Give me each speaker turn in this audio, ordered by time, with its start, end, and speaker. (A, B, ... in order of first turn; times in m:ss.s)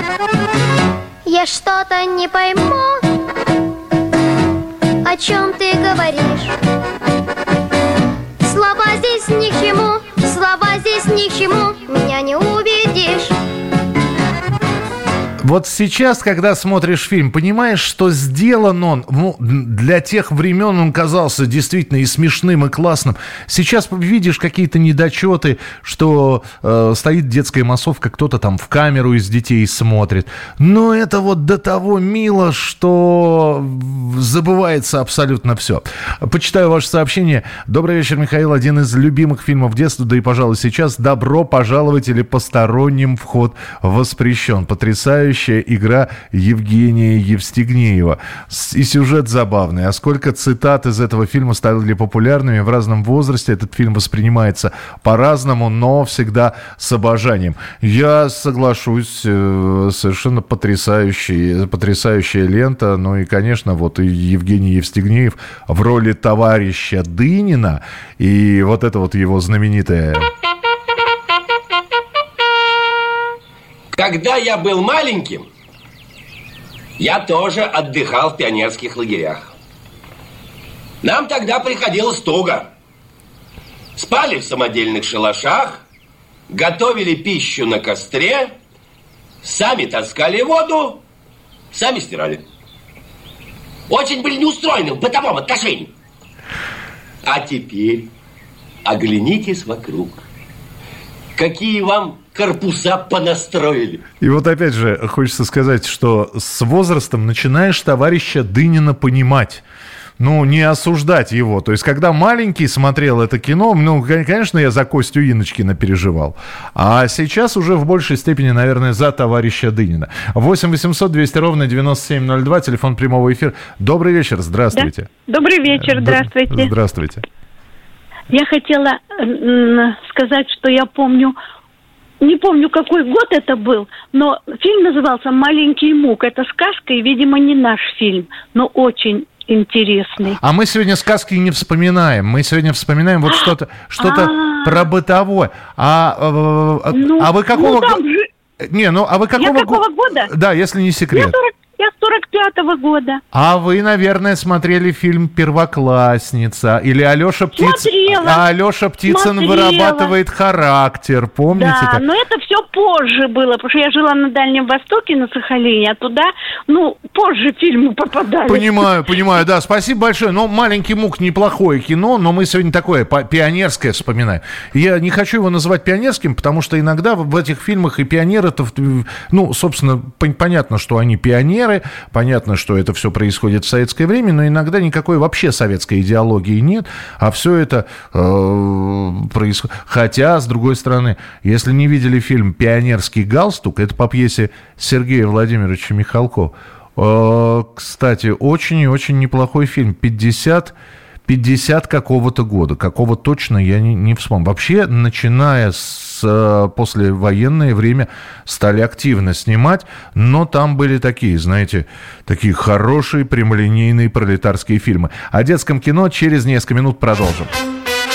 0:01.2-0:02.9 A
0:05.0-0:06.5 A
0:08.4-0:13.3 A
0:15.4-1:10.3 B
1:13.9-1:15.5 C
1:17.0-1:19.5 C
1:21.0-1:22.7 C
1:24.0-1:25.8 C
1:26.5-1:28.5 C
1:29.4-1:31.0 C
1:31.7-1:32.4 C
1:33.9-1:35.9 C
1:37.2-1:38.1 C
1:38.8-1:40.2 C
1:41.4-1:44.0 C
1:44.2-1:49.6 B
1:50.2-2:05.1 B
2:04.7-2:06.7 D
2:05.7-2:07.2 B
2:08.3-2:11.4 D
2:12.2-2:20.4 D
2:20.4-2:28.0 B
2:23.3-2:24.8 D
2:26.9-2:28.2 D
2:28.6-2:31.3 B
2:29.4-2:30.3 D
2:31.1-2:33.2 D
2:33.3-2:42.0 B
2:37.6-2:38.4 D
2:39.0-2:40.1 D
2:41.5-2:48.9 D
2:48.4-3:20.7 B
3:21.3-3:37.5 B